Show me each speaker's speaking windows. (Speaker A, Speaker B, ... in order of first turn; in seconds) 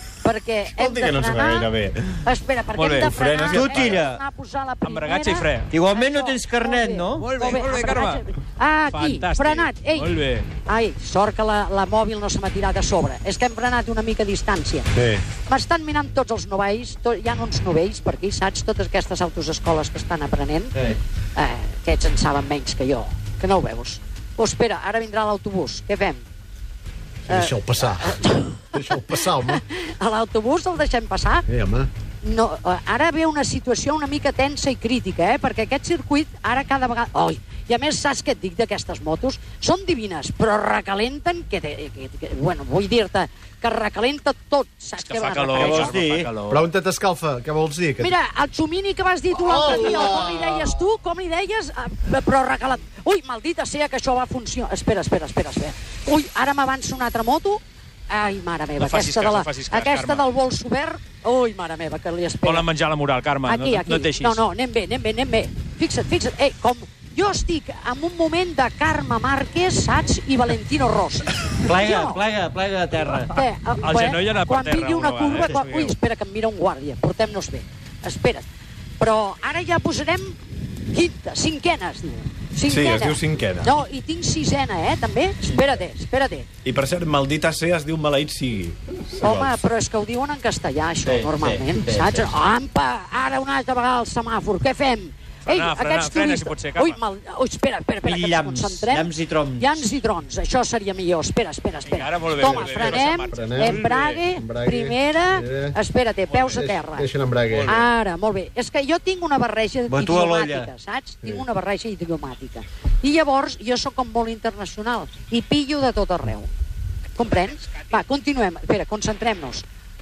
Speaker A: 0.2-1.7, 2.2-10.1, 10.7-14.9, 15.4-20.8, 21.4-26.2, 27.3-31.5, 32.2-46.0, 48.0-62.7, 63.5-72.2, 73.3-78.5, 79.0-80.4, 80.9-86.5, 89.2-107.1, 107.7-116.5, 117.2-119.6
Speaker B: 0.8-2.2, 3.0-4.1, 82.7-83.7, 86.6-89.6
Speaker C: 2.8-3.2, 4.8-5.7, 7.2-8.3, 8.9-10.5, 45.0-46.6, 58.8-60.2, 62.4-64.4, 73.8-76.0, 95.5-97.0, 101.8-104.2, 106.3-106.6, 107.5-107.9
Speaker D: 3.5-4.2, 5.7-7.3, 45.6-46.3, 71.7-73.4, 91.1-92.3, 98.0-99.8, 109.9-110.7
Speaker E: 15.0-15.2, 27.3-29.6, 31.5-31.9, 46.5-48.1, 49.4-50.6, 103.3-105.8, 106.5-107.8